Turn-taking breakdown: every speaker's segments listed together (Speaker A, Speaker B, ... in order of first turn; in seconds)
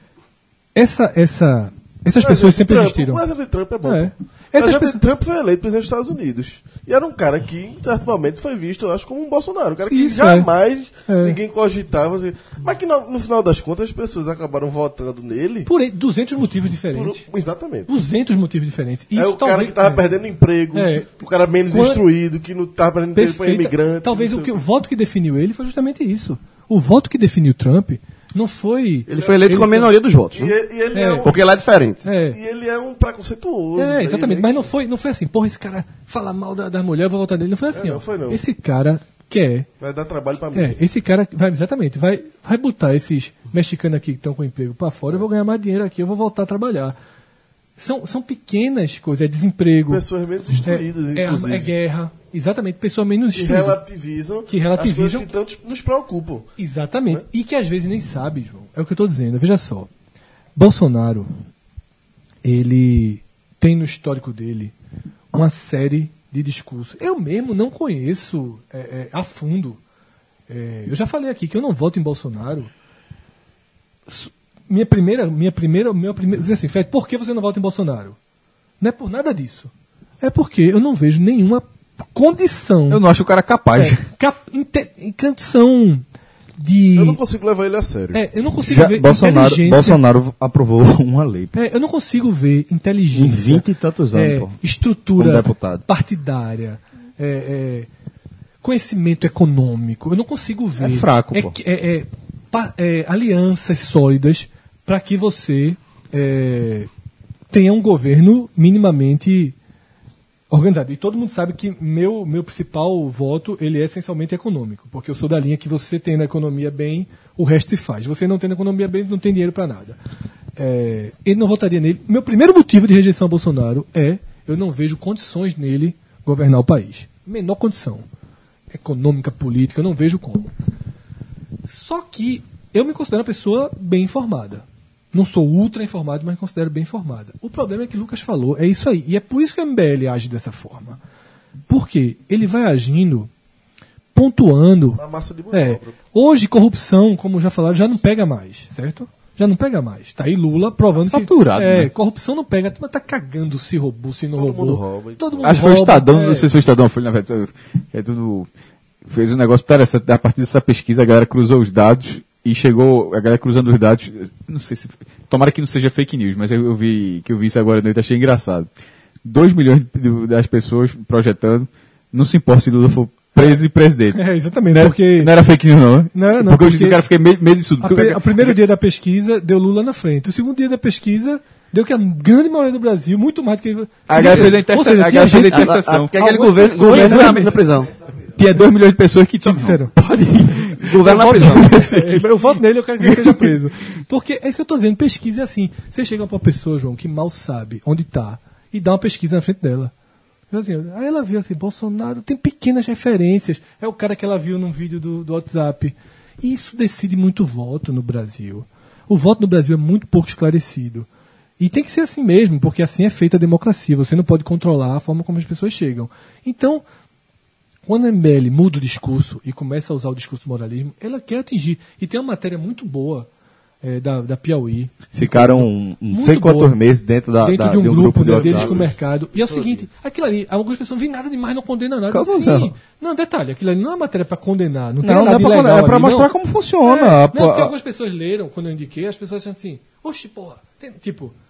Speaker A: 0.8-3.2, 3.8-5.0, 9.9-10.5, 11.1-11.4, 15.7-17.2, 17.9-20.0, 20.7-21.1, 21.7-22.0, 23.1-29.9, 30.9-31.3, 32.0-32.4, 33.8-39.7, 40.5-47.0, 47.8-50.0, 50.6-53.8, 54.5-55.3, 56.6-59.9, 60.6-61.3, 62.4-64.7, 65.3-69.8, 70.5-72.7, 74.1-78.2, 78.8-83.0, 83.8-86.0, 86.6-87.2, 88.1-90.0, 91.5-97.9, 98.6-106.9, 107.5-109.5, 110.5-120.0, 120.6-128.1, 128.7-130.5, 131.7-141.0, 141.7-143.3, 144.1-156.5, 174.1-175.3, 176.1-177.0, 177.8-185.8, 186.6-187.5, 189.5-189.9, 190.9-199.9, 200.5-211.1, 211.6-216.8, 217.9-223.3, 223.8-226.8, 227.4-241.3
Speaker B: 2.2-15.7, 16.9-17.9, 19.1-24.6, 29.1-29.4, 30.3-31.4, 32.3-34.7, 37.7-38.4, 39.8-40.8, 49.9-51.8, 53.3-56.5, 87.0-88.2, 145.0-146.0, 154.3-155.6, 228.3-228.9, 229.5-229.9
Speaker C: 29.1-30.6, 31.2-32.0, 185.5-187.9, 190.8-191.7
Speaker D: 82.9-84.0, 151.0-151.9, 155.4-158.5, 159.1-168.7, 169.2-178.6, 184.1-187.6, 188.3-192.3, 193.0-193.5
Speaker E: 88.7-91.5, 93.1-94.6, 95.2-95.8, 100.8-101.6, 225.1-228.8, 232.1-232.7, 235.0-237.7